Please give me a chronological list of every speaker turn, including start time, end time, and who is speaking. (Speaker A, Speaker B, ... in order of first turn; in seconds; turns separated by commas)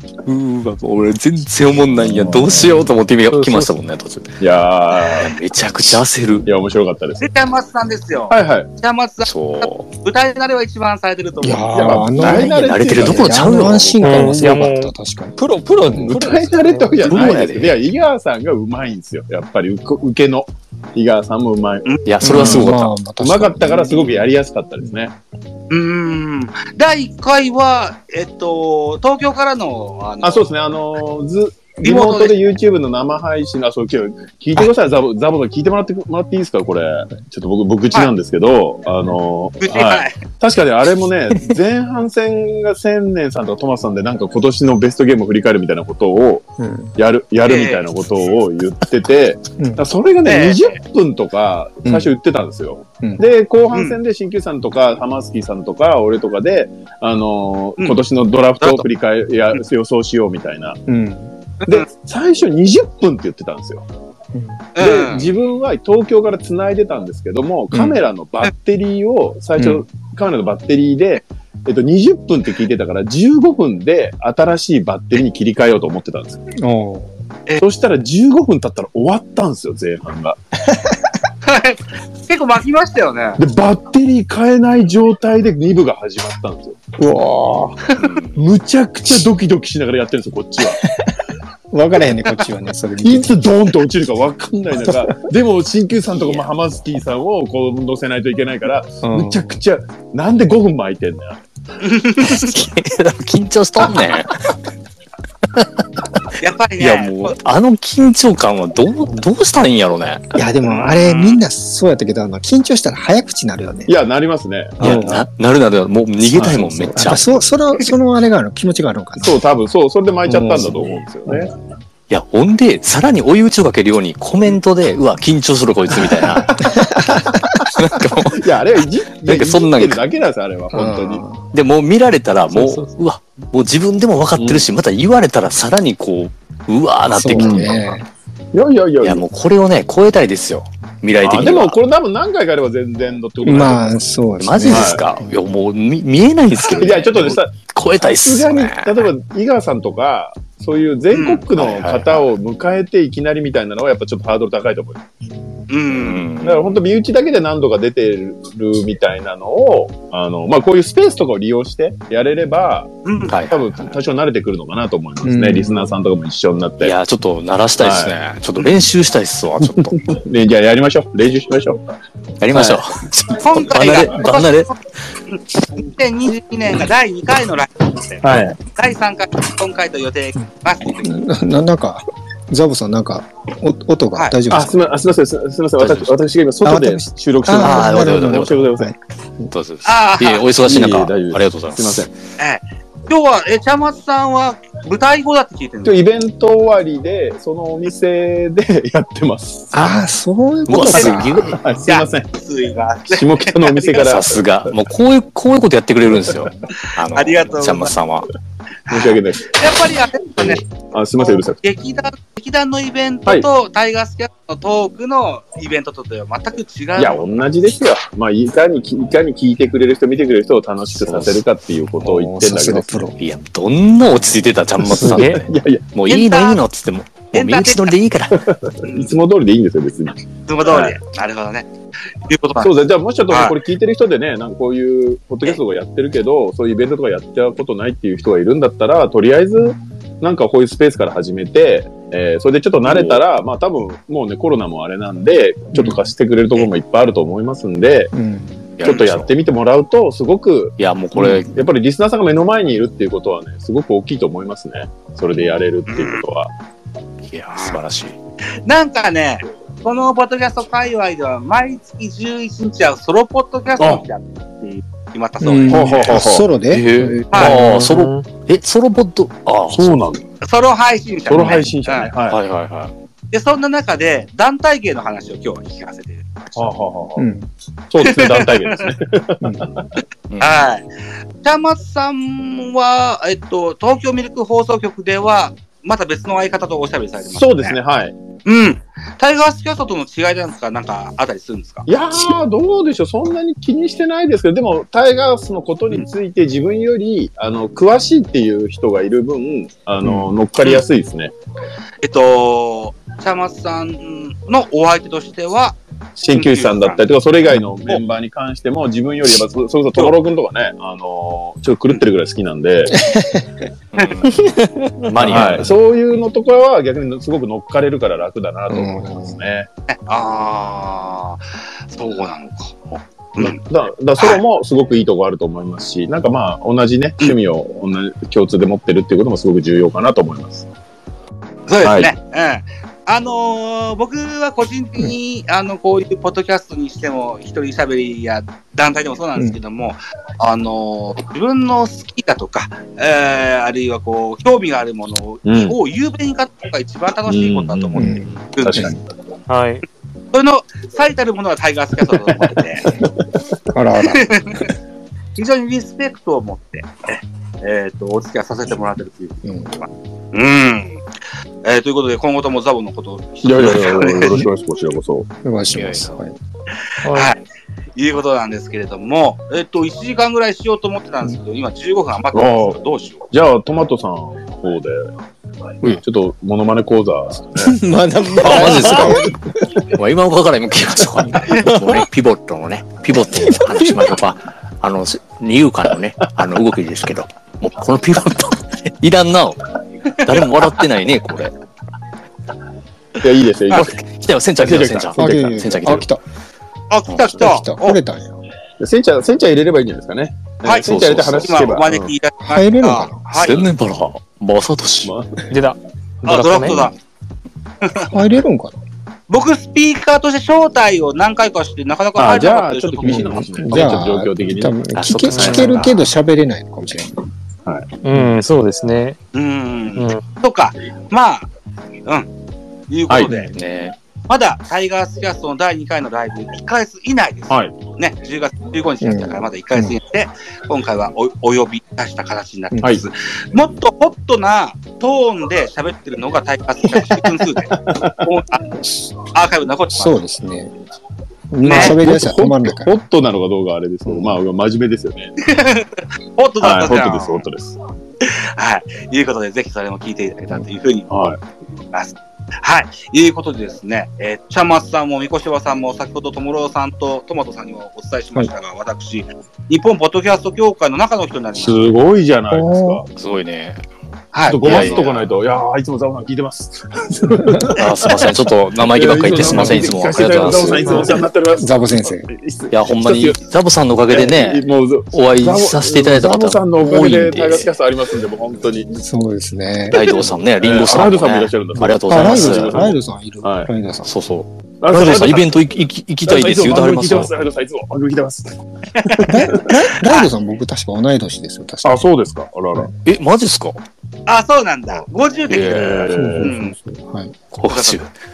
Speaker A: 0.2-4.4, Speaker B: 2.1-2.5, Speaker C: 2.5-2.8, Speaker C: 3.4-3.6, Speaker B: 4.4-5.3, Speaker A: 5.1-6.5, Speaker B: 6.5-7.3, Speaker D: 7.2-11.9, Speaker B: 8.3-8.7, Speaker A: 9.2-9.9, Speaker C: 11.4-15.4, Speaker B: 11.7-13.8, Speaker A: 12.2-14.2, Speaker E: 14.0-17.1, Speaker C: 15.9-16.2, Speaker B: 16.0-25.1, Speaker A: 17.0-17.8, Speaker A: 22.1-23.0, Speaker C: 22.2-24.2, Speaker D: 25.7-30.5, Speaker B: 30.2-60.8, Speaker D: 31.8-32.4, Speaker D: 39.6-40.2, Speaker C: 46.6-46.9, Speaker D: 47.5-47.9, Speaker D: 50.2-50.8, Speaker C: 51.9-52.1, Speaker D: 53.7-54.0, Speaker C: 60.9-61.3, Speaker B: 61.7-63.9, Speaker C: 64.3-64.6, Speaker D: 64.8-65.3, Speaker B: 64.8-76.5, Speaker C: 67.7-68.0, Speaker C: 69.6-69.8, Speaker C: 76.6-77.1, Speaker B: 77.6-80.4, Speaker D: 81.5-83.4, Speaker B: 83.4-87.0, Speaker C: 87.0-87.8, Speaker A: 88.0-88.4, Speaker B: 88.3-90.8, Speaker C: 90.8-91.2, Speaker C: 91.7-93.5, Speaker B: 93.0-101.4, Speaker C: 99.0-99.5, Speaker D: 101.8-102.6, Speaker A: 102.2-104.6, Speaker A: 105.5-110.3, Speaker D: 106.4-107.4, Speaker C: 110.3-113.9, Speaker D: 110.7-111.4, Speaker B: 113.9-115.2, Speaker C: 114.8-115.2, Speaker A: 114.8-117.3, Speaker C: 116.3-119.4, Speaker B: 119.2-121.5, Speaker C: 120.3-121.5, Speaker A: 122.1-126.7, Speaker C: 126.3-127.7, Speaker B: 126.7-127.2, Speaker A: 127.7-130.0, Speaker B: 128.3-131.2, Speaker C: 130.7-131.4, Speaker A: 131.5-137.9, Speaker B: 134.4-134.7, Speaker C: 137.1-138.1, Speaker B: 137.4-137.7, Speaker B: 138.5-139.2, Speaker A: 139.0-141.8, Speaker B: 141.2-144.1, Speaker C: 143.4-145.3, Speaker A: 144.4-149.1, Speaker B: 144.7-145.1, Speaker B: 146.7-155.1, Speaker D: 151.1-151.4, Speaker A: 151.5-152.2, Speaker D: 155.7-156.2, Speaker A: 155.9-156.8, Speaker B: 156.4-166.9, Speaker D: 163.1-163.5, Speaker A: 163.2-163.6, Speaker C: 165.2-165.9, Speaker A: 166.8-170.0, Speaker B: 167.8-168.2, Speaker B: 169.6-171.9, Speaker A: 172.4-174.7, Speaker B: 172.5-172.9, Speaker D: 173.4-174.7, Speaker D: 175.3-181.2, Speaker B: 178.2-178.6, Speaker C: 180.9-184.8, Speaker B: 184.5-188.9, Speaker A: 185.8-186.1, Speaker C: 186.7-189.5, Speaker A: 187.5-188.6, Speaker A: 189.5-192.1, Speaker D: 189.8-190.5, Speaker B: 190.6-192.1, Speaker D: 192.4-196.1, Speaker B: 195.8-199.8, Speaker C: 199.7-201.6, Speaker A: 200.7-201.6, Speaker D: 200.7-201.3, Speaker B: 201.6-202.3, Speaker D: 201.9-204.0, Speaker B: 203.1-204.4, Speaker A: 204.0-208.3, Speaker D: 206.9-207.9, Speaker D: 208.9-210.7, Speaker B: 208.9-209.8, Speaker B: 210.3-211.6, Speaker D: 211.6-217.4, Speaker B: 217.0-223.0, Speaker A: 221.0-221.4, Speaker C: 222.0-223.2, Speaker A: 223.2-228.5, Speaker B: 224.8-225.8, Speaker E: 225.0-225.4, Speaker D: 226.1-226.6, Speaker D: 227.3-228.0, Speaker B: 228.3-231.0, Speaker D: 228.8-229.2, Speaker D: 230.5-231.7, Speaker D: 232.3-232.8, Speaker B: 232.6-248.1, Speaker D: 233.3-233.6, Speaker A: 242.9-243.2, Speaker C: 245.8-246.0, Speaker C: 248.1-248.6, Speaker A: 248.8-249.3, Speaker B: 248.8-256.5, Speaker A: 250.8-251.6, Speaker D: 255.9-256.2, Speaker A: 257.3-258.2, Speaker D: 257.5-257.8, Speaker D: 258.6-266.1, Speaker B: 263.8-264.1, Speaker C: 265.4-267.5, Speaker B: 265.7-266.5, Speaker A: 266.7-270.1, Speaker D: 267.3-267.6, Speaker E: 267.4-268.3, Speaker B: 269.7-270.3, Speaker D: 270.4-272.1, Speaker B: 271.3-272.4, Speaker A: 272.3-272.9, Speaker D: 273.3-276.5, Speaker B: 276.6-277.3, Speaker C: 277.2-277.5, Speaker B: 277.9-279.9, Speaker D: 278.0-278.9, Speaker C: 279.4-279.7, Speaker A: 280.3-280.7, Speaker D: 280.4-280.9, Speaker D: 281.4-287.8, Speaker B: 287.3-288.1, Speaker D: 288.5-291.9, Speaker B: 291.9-301.3, Speaker D: 302.0-305.8, Speaker B: 306.2-313.0, Speaker D: 306.3-307.0, Speaker C: 312.9-313.7, Speaker A: 313.9-314.6, Speaker E: 314.2-315.4, Speaker A: 315.1-315.8, Speaker B: 315.2-319.7, Speaker C: 318.7-319.4, Speaker D: 319.9-322.8, Speaker B: 323.4-330.7, Speaker D: 331.7-348.9, Speaker B: 331.8-332.1, Speaker B: 345.4-345.8, Speaker B: 347.3-349.0, Speaker C: 347.9-349.0, Speaker E: 349.5-349.9, Speaker D: 350.3-352.9, Speaker C: 353.7-354.7, Speaker D: 354.1-354.7, Speaker D: 355.4-361.0, Speaker C: 359.4-359.8, Speaker D: 361.6-364.4, Speaker B: 363.4-365.3, Speaker C: 365.4-366.4, Speaker A: 365.7-366.1, Speaker E: 367.0-367.3, Speaker D: 367.1-367.4, Speaker D: 368.0-373.2, Speaker B: 372.3-372.8, Speaker B: 373.3-375.1, Speaker B: 375.8-377.8, Speaker C: 377.6-379.4, Speaker A: 378.3-391.5, Speaker D: 381.5-381.9, Speaker C: 383.5-384.0, Speaker B: 393.2-394.0, Speaker A: 393.7-396.1, Speaker B: 394.6-395.4, Speaker C: 395.2-396.2, Speaker D: 396.9-398.0, Speaker A: 397.1-397.4, Speaker C: 397.4-398.4, Speaker B: 398.8-402.1, Speaker D: 400.6-403.7, Speaker A: 400.8-401.5, Speaker C: 402.4-403.3, Speaker A: 403.3-405.1, Speaker B: 405.0-405.5, Speaker E: 405.5-406.9, Speaker D: 406.3-406.9, Speaker D: 407.8-408.1, Speaker C: 408.0-408.8, Speaker D: 409.3-413.6, Speaker B: 412.2-414.7, Speaker C: 413.0-417.2, Speaker A: 414.9-416.0, Speaker B: 415.3-415.9, Speaker E: 418.0-419.2, Speaker D: 419.3-421.5, Speaker E: 419.9-420.2, Speaker D: 422.9-423.5, Speaker B: 423.1-423.5, Speaker A: 423.5-424.0, Speaker D: 424.3-438.7, Speaker B: 427.5-427.8, Speaker C: 429.0-430.0, Speaker B: 436.9-438.3, Speaker D: 439.2-440.2, Speaker C: 439.9-440.7, Speaker C: 441.5-442.9, Speaker D: 441.6-442.0, Speaker B: 441.7-445.4, Speaker D: 445.4-447.5, Speaker B: 446.6-447.8, Speaker D: 448.2-451.1, Speaker B: 451.1-451.4, Speaker D: 451.9-462.0, Speaker B: 461.6-463.1, Speaker C: 462.5-463.0, Speaker A: 463.1-463.8, Speaker D: 464.3-465.2, Speaker B: 464.5-473.4, Speaker A: 464.6-465.0, Speaker A: 467.8-471.2, Speaker C: 469.4-469.8, Speaker C: 470.8-472.3, Speaker A: 472.7-474.6, Speaker B: 474.1-479.0, Speaker A: 475.1-477.7, Speaker C: 479.0-480.2, Speaker A: 479.9-483.0, Speaker B: 480.6-483.7, Speaker C: 482.1-484.1, Speaker A: 484.1-487.3, Speaker B: 484.8-485.6, Speaker B: 486.2-489.9, Speaker D: 489.0-489.4, Speaker C: 489.3-492.0, Speaker D: 490.0-490.3, Speaker B: 491.8-492.9, Speaker A: 493.0-493.8, Speaker D: 494.3-496.7, Speaker B: 494.9-496.5, Speaker A: 495.5-496.0, Speaker C: 496.1-497.4, Speaker A: 497.5-498.1, Speaker D: 497.6-498.0